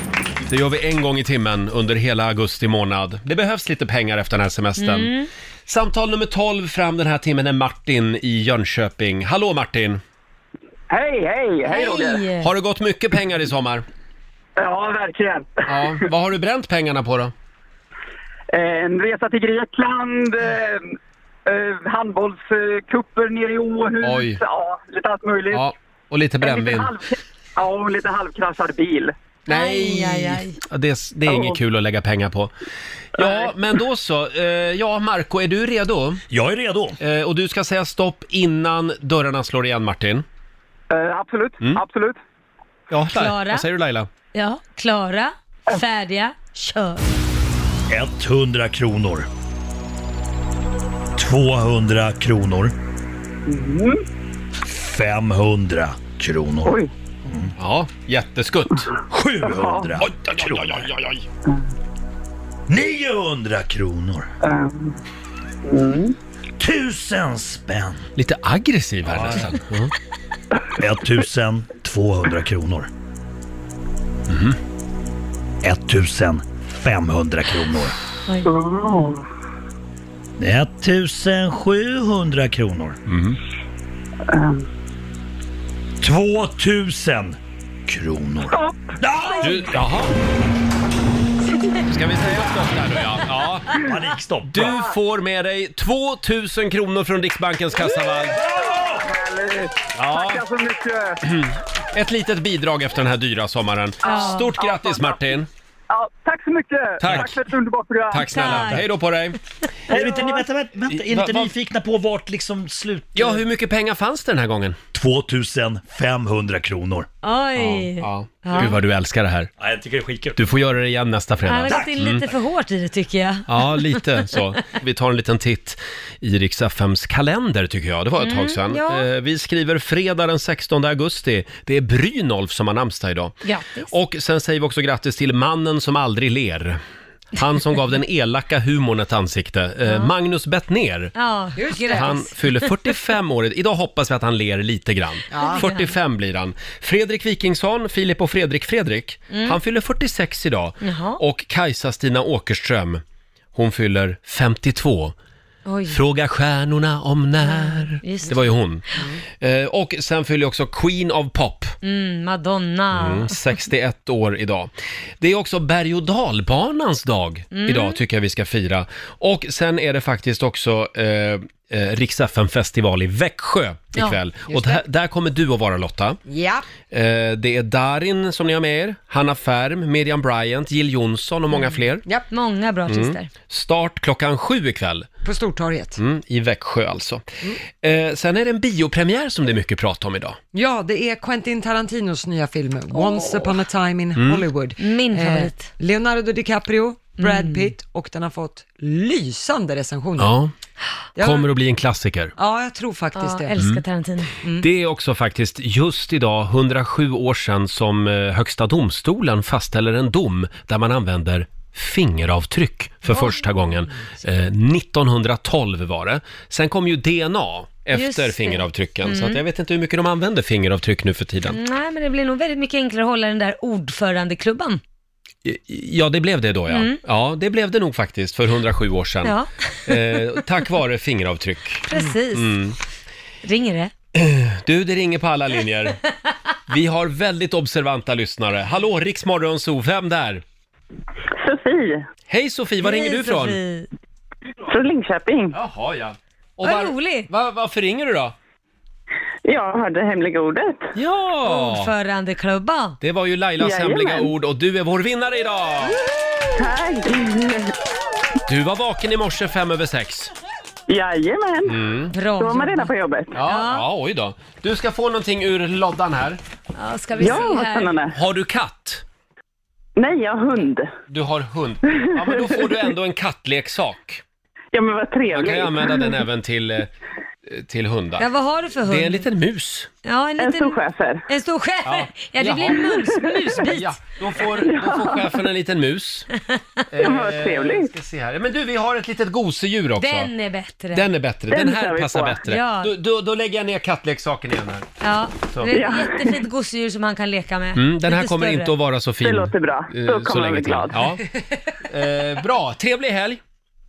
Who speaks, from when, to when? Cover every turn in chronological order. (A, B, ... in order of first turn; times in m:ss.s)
0:00.5-0:05.1 A
0:04.8-0:05.3 B
0:05.7-0:10.0 A
0:10.9-0:12.2 C
0:11.6-0:12.5 B
0:12.4-0:13.8 A
0:14.6-0:15.8 D
0:15.7-0:17.3 A
0:18.5-0:20.9 D
0:21.4-0:25.7 D
0:24.0-0:24.4 A
0:25.5-0:26.9 A
0:26.4-0:29.1 D
0:29.5-0:32.5 A
0:29.5-0:30.6 B
0:33.1-0:36.2 A
0:36.3-0:37.0 E
0:37.0-0:40.2 A
0:40.9-0:42.2 D
0:42.9-0:44.1 A
0:43.1-0:43.6 B
0:44.3-0:47.0 B
0:47.9-0:49.3 E
0:51.2-0:52.7 E
0:53.5-0:54.0 C
0:54.6-0:57.5 E
0:56.6-0:56.9 C
0:57.6-0:58.9 A
0:59.1-1:00.9 E
0:59.6-0:59.8 C
1:00.0-1:01.2 A
1:02.7-1:04.3 E
1:04.4-1:05.0 C
1:05.7-1:06.1 C
1:06.6-1:08.0 E
1:08.2-1:09.9 A
1:09.1-1:09.5 E
1:10.7-1:12.9 E
1:14.3-1:14.6 A
1:15.6-1:18.0 E
1:18.4-1:19.2 C
1:20.4-1:23.0 E
1:23.1-1:23.4 A
1:26.0-1:29.7 E
1:29.4-1:30.1 A
1:31.8-1:33.7 A
1:33.7-1:34.8 E
1:34.5-1:38.4 A
1:38.3-1:39.1 E
1:38.9-1:41.2 D
1:39.9-1:40.4 A
1:41.2-1:45.5 A
1:44.0-1:44.5 B
1:44.0-1:45.3 D
1:45.9-1:48.3 D
1:47.0-1:47.4 A
1:48.1-1:49.4 A
1:48.2-1:48.9 B
1:49.9-1:53.4 E
1:49.9-1:50.4 D
1:50.9-1:51.5 A
1:53.1-1:54.8 A
1:54.9-1:57.1 E
1:57.2-1:58.8 B
1:57.6-1:59.5 A
1:59.6-2:00.4 E
2:00.4-2:02.2 A
2:01.5-2:04.4 B
2:01.7-2:02.1 E
2:03.5-2:16.8 A
2:08.2-2:09.0 B
2:13.4-2:13.9 B
2:17.4-2:21.1 A
2:19.8-2:20.1 B
2:21.1-2:22.9 B
2:21.6-2:22.2 F
2:21.9-2:33.0 A
2:25.3-2:25.6 F
2:25.4-2:25.9 B
2:29.3-2:29.6 B
2:30.8-2:31.2 B
2:33.5-2:35.1 A
2:35.6-2:36.0 B
2:35.9-2:38.8 A
2:37.4-2:39.0 B
2:38.9-2:39.2 F
2:39.4-2:41.8 A
2:41.8-2:43.4 B
2:42.9-2:56.2 A
2:47.5-2:48.0 B
2:54.5-2:54.8 F
2:56.3-2:56.6 F
2:56.9-3:02.0 A
3:01.5-3:03.3 B
3:02.9-3:05.1 A
3:05.2-3:06.0 F
3:06.0-3:07.2 A
3:07.8-3:10.4 A
3:10.5-3:20.4 F
3:12.9-3:13.6 B
3:14.2-3:14.4 A
3:14.8-3:15.7 B
3:17.2-3:17.7 B
3:20.2-3:20.5 A
3:21.2-3:21.5 F
3:21.2-3:22.3 A
3:22.4-3:23.6 F
3:23.1-3:24.3 B
3:23.6-3:23.8 A
3:24.6-3:41.6 A
3:37.9-3:39.4 B
3:41.5-3:44.8 B
3:45.4-3:52.8 A
3:46.7-3:47.0 B
3:49.2-3:50.2 B
3:51.9-3:52.6 B
3:53.4-3:53.9 B
3:54.1-3:56.0 A
3:56.7-4:00.4 A
4:01.4-4:02.0 C
4:02.3-4:03.6 A
4:02.8-4:03.9 B
4:04.7-4:05.6 C
4:05.5-4:08.3 A
4:06.6-4:07.3 B
4:09.4-4:10.9 C
4:10.9-4:11.9 A
4:11.4-4:13.0 B
4:13.0-4:16.0 A
4:13.6-4:14.3 C
4:16.6-4:17.7 C
4:18.5-4:20.3 A
4:20.9-4:21.8 C
4:21.6-4:22.1 A
4:22.1-4:23.8 B
4:22.4-4:23.3 C
4:23.3-4:26.4 A
4:26.7-4:28.0 B
4:27.2-4:28.1 C
4:28.1-4:29.0 A
4:30.0-4:30.9 C
4:31.1-4:34.2 A
4:31.9-4:32.7 C
4:34.7-4:36.0 C
4:35.3-4:36.9 A
4:37.5-4:38.3 A
4:38.2-4:39.3 B
4:38.9-4:39.9 A
4:40.0-4:44.0 B
4:40.4-4:41.2 C
4:41.8-4:46.3 A
4:44.5-4:45.2 C
4:46.9-4:50.3 A
4:47.0-4:47.9 C
4:50.0-4:51.0 B
4:50.9-4:54.9 A
4:51.5-4:52.4 C
4:52.5-4:52.9 B
4:55.0-4:58.7 B
4:55.7-4:56.4 C
4:57.8-5:01.2 A
4:59.2-5:01.0 C
5:01.9-5:03.4 A